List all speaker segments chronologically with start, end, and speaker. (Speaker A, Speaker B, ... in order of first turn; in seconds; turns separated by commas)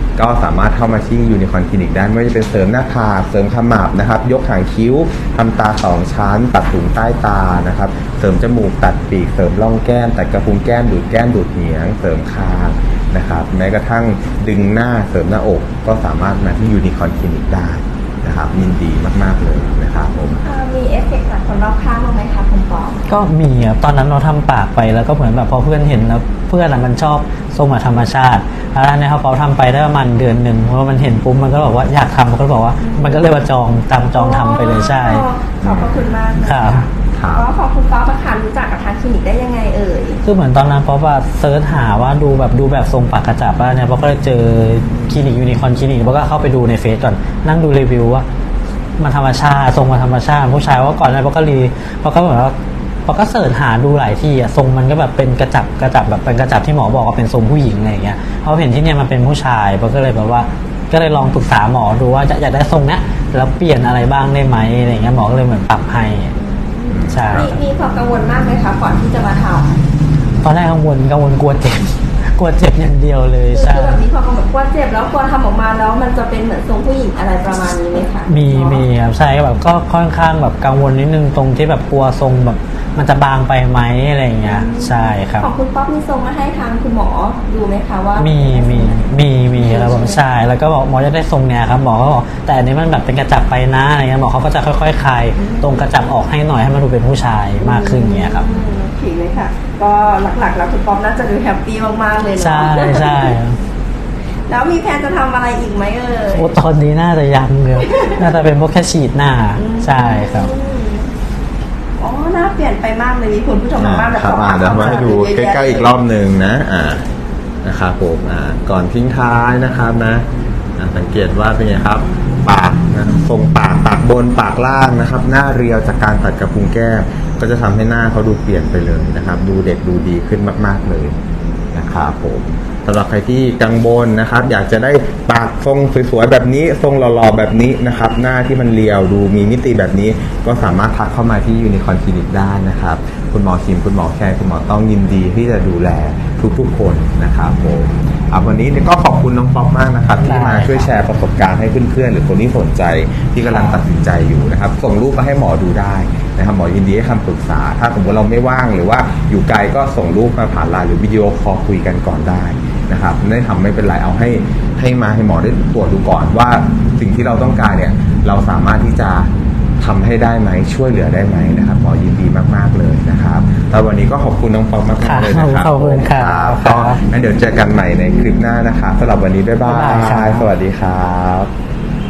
Speaker A: 0.1-20.4, Speaker B: 20.4-23.0, Speaker C: 23.1-35.2, Speaker B: 32.8-33.3, Speaker B: 34.1-40.2, Speaker A: 35.6-36.0, Speaker C: 36.4-36.8, Speaker A: 37.1-37.5, Speaker C: 40.2-48.2, Speaker C: 49.0-52.5, Speaker C: 53.0-66.3, Speaker B: 66.4-69.8, Speaker A: 66.9-67.6, Speaker C: 67.1-67.6, Speaker C: 70.4-74.0, Speaker B: 73.5-78.9, Speaker C: 78.2-85.5, Speaker B: 84.4-89.0, Speaker C: 88.2-98.5, Speaker B: 89.6-90.2, Speaker B: 95.4-96.1, Speaker B: 97.6-103.4, Speaker C: 102.4-103.6, Speaker B: 104.5-106.5, Speaker C: 106.3-110.5, Speaker B: 107.9-108.3, Speaker B: 109.6-111.1, Speaker B: 112.0-115.9, Speaker A: 113.8-117.0, Speaker A: 117.6-120.2, Speaker A: 120.8-131.1, Speaker A: 131.7-181.5, Speaker C: 150.2-150.9, Speaker C: 153.5-153.8, Speaker C: 175.0-177.0, Speaker C: 179.6-180.5